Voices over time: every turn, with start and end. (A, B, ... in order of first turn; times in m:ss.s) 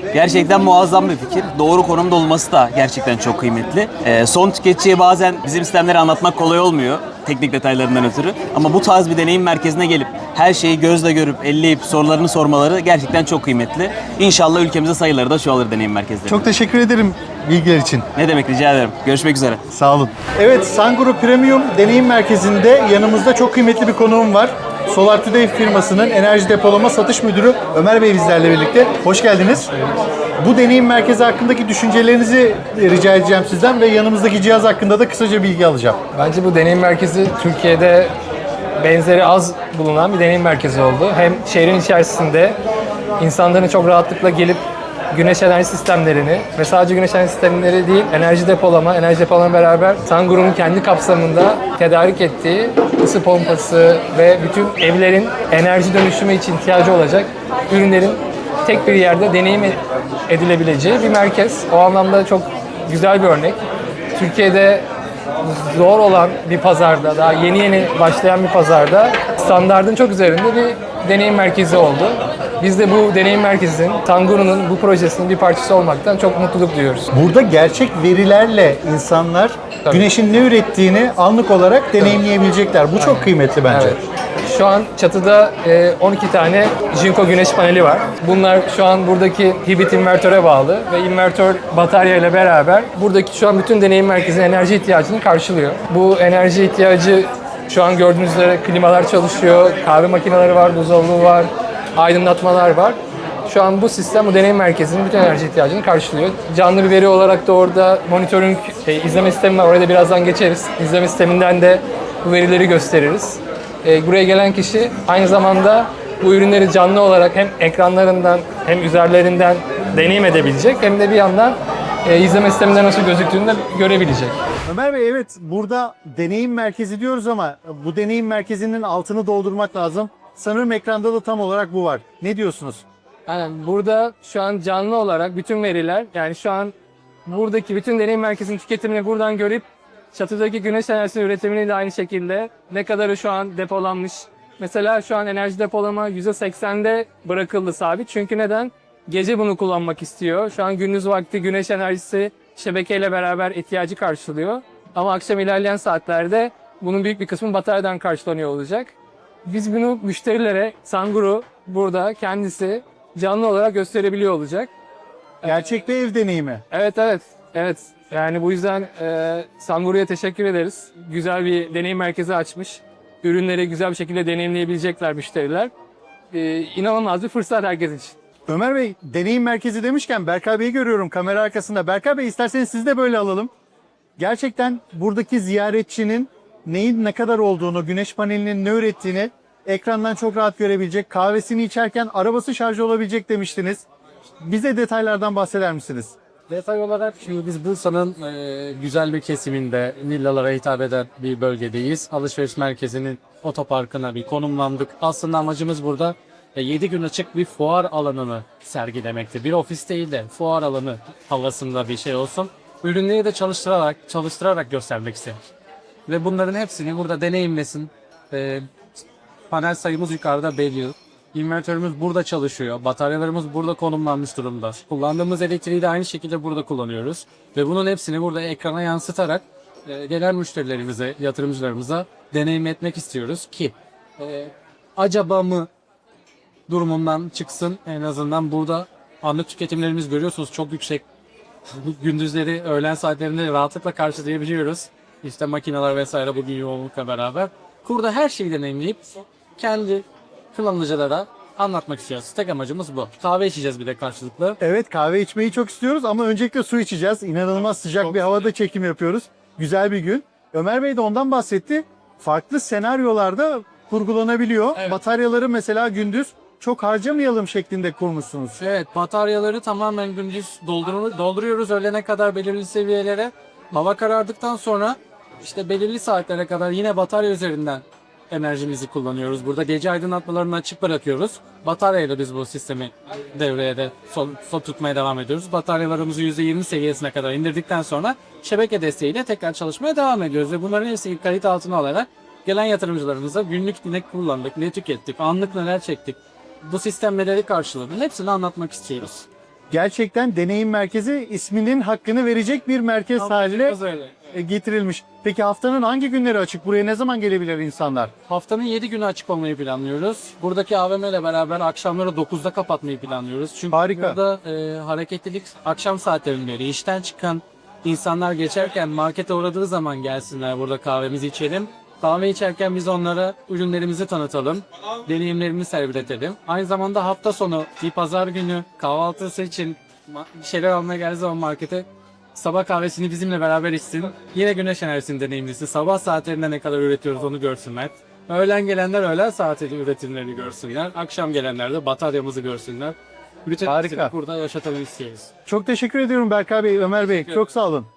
0:00.1-0:16.4 A
0:16.3-0:18.0 B
0:18.2-0:19.6 A
0:19.7-0:29.7 B
0:30.4-0:36.0 B
0:36.1-0:38.1 C
0:38.8-0:42.6 C
0:43.2-1:03.6 C
1:04.1-1:04.8 C
1:05.4-1:17.1 C
1:17.1-1:24.0 B
1:23.0-2:04.3 C
2:04.6-2:12.8 B
2:13.3-2:16.7 C
2:17.2-2:38.9 C
2:39.4-2:44.7 C
2:45.4-2:46.6 B
2:46.7-2:55.7 C
2:56.3-2:58.1 C
2:58.5-3:03.5 B
3:04.2-3:13.8 B
3:14.4-3:16.1 B
3:16.5-3:35.4 D
3:36.1-3:38.6 D
3:39.5-3:55.7 D
3:56.7-4:01.0 D
4:01.7-4:09.0 D
4:09.6-4:14.6 D
4:14.6-4:28.6 B
4:28.6-4:59.2 D
4:59.7-5:03.8 B
5:03.2-5:04.1 D
5:04.3-5:08.1 B
5:08.3-5:45.3 D
5:13.7-5:14.2 B
5:43.6-5:44.1 B
5:45.4-5:47.9 B